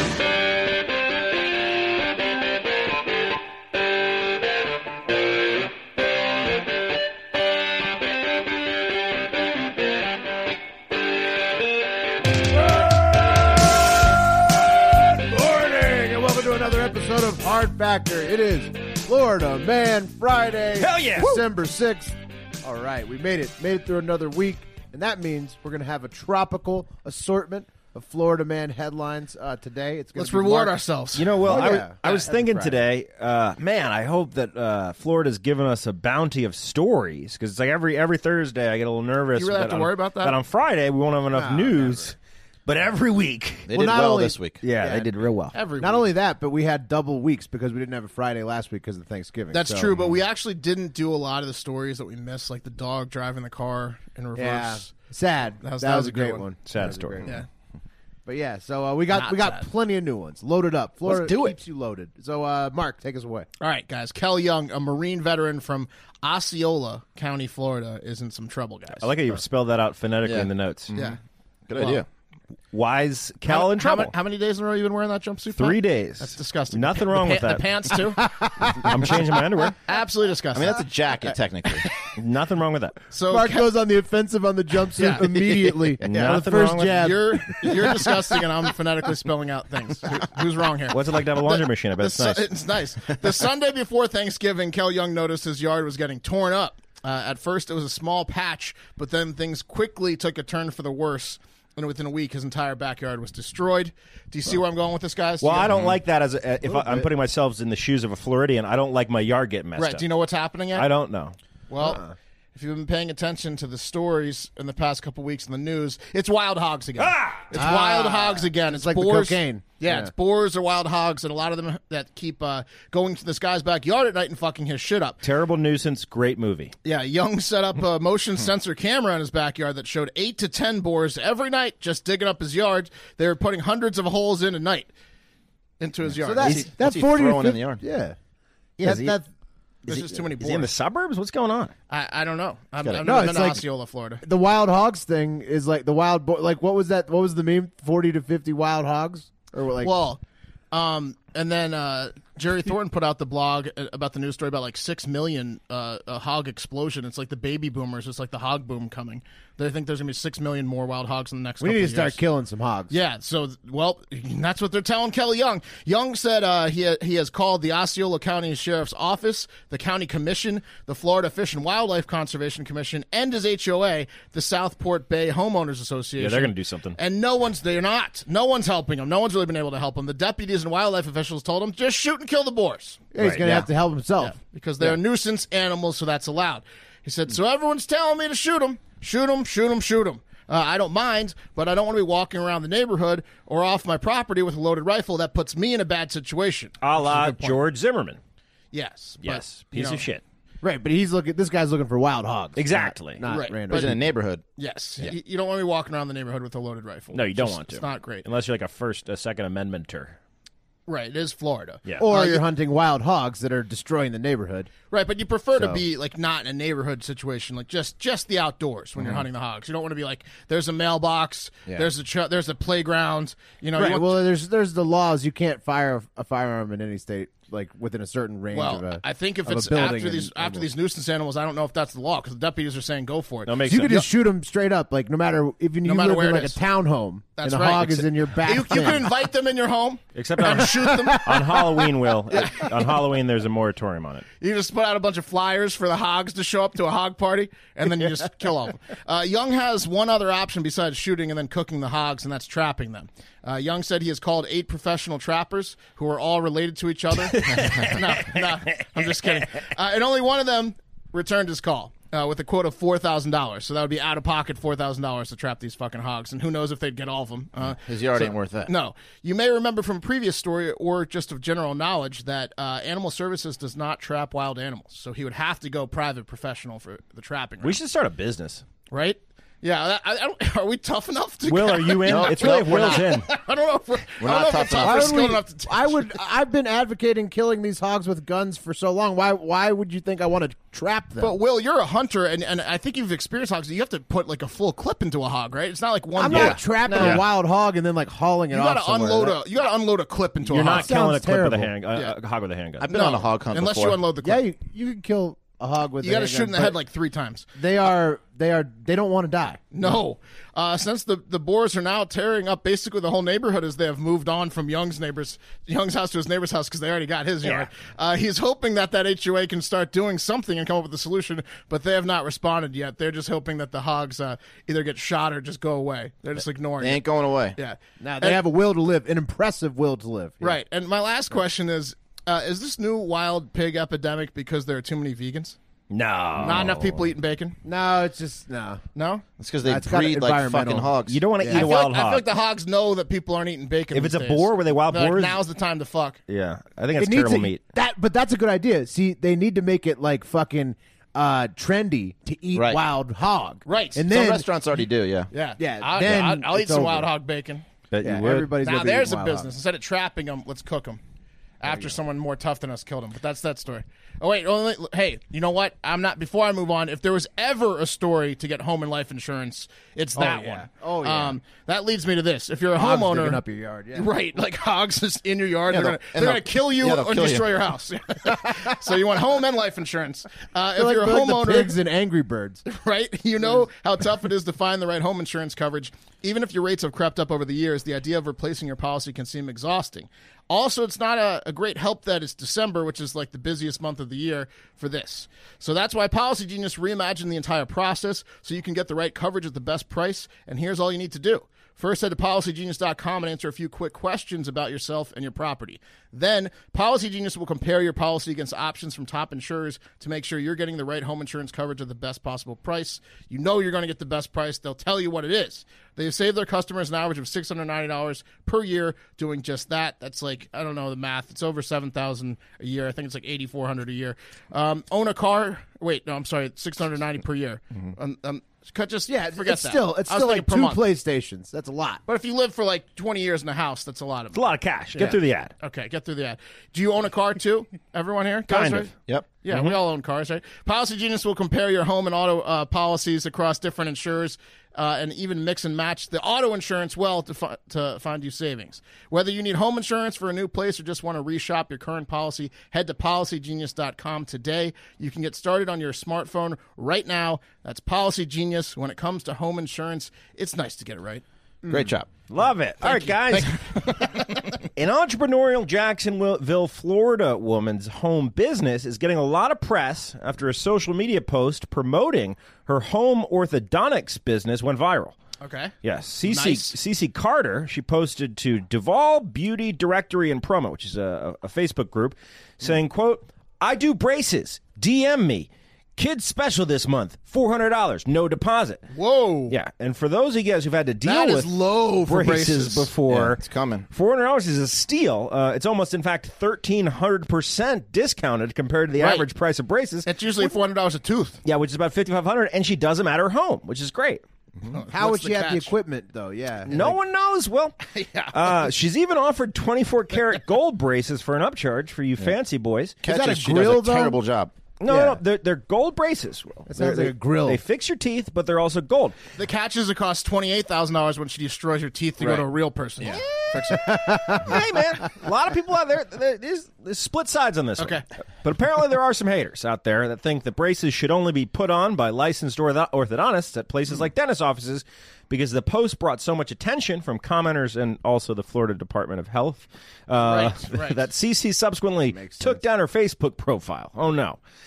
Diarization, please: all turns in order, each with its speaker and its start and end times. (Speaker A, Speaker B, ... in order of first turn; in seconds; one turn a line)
Speaker A: 15.0-30.8
Speaker B: 20.8-21.4
Speaker C: 30.1-31.3
Speaker B: 31.1-43.7
Speaker A: 31.4-32.8
Speaker C: 39.4-40.4
Speaker A: 41.3-42.1
Speaker D: 43.7-44.6
Speaker A: 43.7-45.1
Speaker B: 44.6-45.5
Speaker C: 45.5-46.1
Speaker A: 45.8-49.9
Speaker C: 49.5-54.9
Speaker A: 54.4-57.4
Speaker C: 55.6-56.5
Speaker B: 56.7-57.2
Speaker A: 58.2-63.5
Speaker C: 59.1-59.6
Speaker B: 61.0-61.5
Speaker C: 63.6-69.3
Speaker B: 69.0-70.9
Speaker D: 70.2-72.0
Speaker C: 71.8-72.0
Speaker B: 72.7-74.1
Speaker C: 73.5-78.3
Speaker B: 75.5-78.0
Speaker A: 78.3-79.1
Speaker B: 78.7-79.8
Speaker C: 79.8-80.9
Speaker D: 80.5-81.9
Speaker B: 82.0-83.0
Speaker C: 83.1-83.7
Speaker A: 83.3-88.4
Speaker C: 85.0-85.2
Speaker B: 86.0-87.1
Speaker D: 86.1-86.3
Speaker C: 87.0-105.7
Speaker B: 90.9-92.5
Speaker B: 105.4-110.0
Speaker D: 105.7-106.0
Speaker A: 106.7-107.1
Speaker C: 109.8-110.9
Speaker B: 110.7-111.3
Speaker C: 111.7-112.0
Speaker A: 111.8-112.1
Speaker C: 112.5-125.2
Speaker B: 117.0-117.5
Speaker A: 117.5-120.1
Speaker B: 125.2-126.7
Speaker C: 126.8-134.9
Speaker C: 135.8-136.7
Speaker A: 136.2-138.2
Speaker D: 136.4-137.8
Speaker A: 138.8-139.3
Speaker B: 138.8-139.2
Speaker C: 139.8-140.7
Speaker B: 140.4-141.7
Speaker C: 141.9-144.2
Speaker D: 142.8-143.5
Speaker A: 143.0-143.6
Speaker A: 144.2-149.9
Speaker C: 149.8-150.2
Speaker C: 150.7-162.2
Speaker A: 161.6-162.9
Speaker C: 162.9-183.0
Speaker B: 176.2-177.0
Speaker A: 183.1-185.0
Speaker B: 183.2-183.7
Speaker C: 184.2-197.6
Speaker B: 196.8-198.2
Speaker C: 198.7-200.0
Speaker B: 199.2-200.2
Speaker A: 200.6-204.1
Speaker B: 202.6-203.2
Speaker C: 203.2-203.9
Speaker D: 203.7-204.4
Speaker C: 204.6-208.2
Speaker B: 207.1-210.2
Speaker C: 210.9-212.4
Speaker A: 212.0-214.7
Speaker C: 214.9-224.2
Speaker A: 223.8-230.7
Speaker C: 228.5-234.1
Speaker B: 233.5-234.0
Speaker A: 233.6-239.1
Speaker C: 235.8-236.6
Speaker C: 237.4-241.3
Speaker B: 240.1-244.2
Speaker A: 240.6-242.3
Speaker C: 242.3-242.7
Speaker C: 244.4-277.8
Speaker B: 257.3-258.4
Speaker D: 267.7-268.7
Speaker B: 277.6-278.6
Speaker C: 278.9-286.1
Speaker B: 281.4-283.3
Speaker D: 282.0-283.0
Speaker D: 284.2-285.3
Speaker A: 284.8-291.4
Speaker C: 291.2-297.2
Speaker A: 296.1-299.4
Speaker B: 296.9-297.2
Speaker C: 298.5-300.9
Speaker B: 300.5-302.9
Speaker A: 300.6-301.7
Speaker D: 302.8-304.0
Speaker C: 302.8-304.4
Speaker A: 304.2-306.8
Speaker C: 306.0-307.4
Speaker A: 307.6-309.7
Speaker C: 309.7-327.0
Speaker D: 326.8-327.6
Speaker C: 327.6-328.4
Speaker A: 328.0-330.6
Speaker C: 330.4-335.6
Speaker B: 335.9-337.1
Speaker C: 336.4-337.6
Speaker A: 337.6-338.8
Speaker C: 338.9-339.2
Speaker D: 339.4-341.2
Speaker A: 339.6-341.7
Speaker B: 341.1-342.3
Speaker C: 341.5-346.2
Speaker B: 343.9-345.4
Speaker B: 346.3-347.6
Speaker A: 347.0-354.5
Speaker D: 352.5-352.8
Speaker C: 353.6-354.0
Speaker D: 354.1-355.3
Speaker C: 355.3-357.6
Speaker A: 355.6-357.1
Speaker B: 357.9-358.5
Speaker A: 358.0-359.5
Speaker C: 358.6-361.0
Speaker C: 361.6-373.4
Speaker A: 361.7-361.9
Speaker A: 370.1-371.4
Speaker A: 372.7-374.1
Speaker C: 373.9-381.7
Speaker D: 375.7-377.5
Speaker A: 380.7-382.6
Speaker C: 382.6-430.8
Speaker A: 429.1-432.0
Speaker C: 432.1-438.9
Speaker B: 434.3-435.5
Speaker B: 438.5-438.9
Speaker C: 439.4-461.2
Speaker B: 439.5-439.8
Speaker D: 461.7-462.1
Speaker B: 462.3-463.6
Speaker C: 462.8-464.5
Speaker B: 464.7-475.1
Speaker C: 475.4-475.7
Speaker B: 475.8-488.8
Speaker C: 476.2-476.8
Speaker C: 488.9-489.6
Speaker B: 489.5-500.1
Speaker C: 491.0-492.9
Speaker D: 493.1-493.9
Speaker C: 499.0-499.2
Speaker C: 500.0-501.4
Speaker B: 501.4-504.2
Speaker C: 504.7-505.7
Speaker A: 504.9-507.0
Speaker B: 506.6-507.8
Speaker C: 507.9-508.6
Speaker B: 508.3-513.0
Speaker D: 513.0-514.5
Speaker A: 513.0-514.2
Speaker B: 514.8-519.2
Speaker A: 514.9-515.2
Speaker A: 516.7-517.6
Speaker C: 519.4-523.9
Speaker B: 523.0-544.4
Speaker A: 523.7-524.6
Speaker C: 527.8-528.0
Speaker C: 540.2-541.0
Speaker A: 542.1-542.6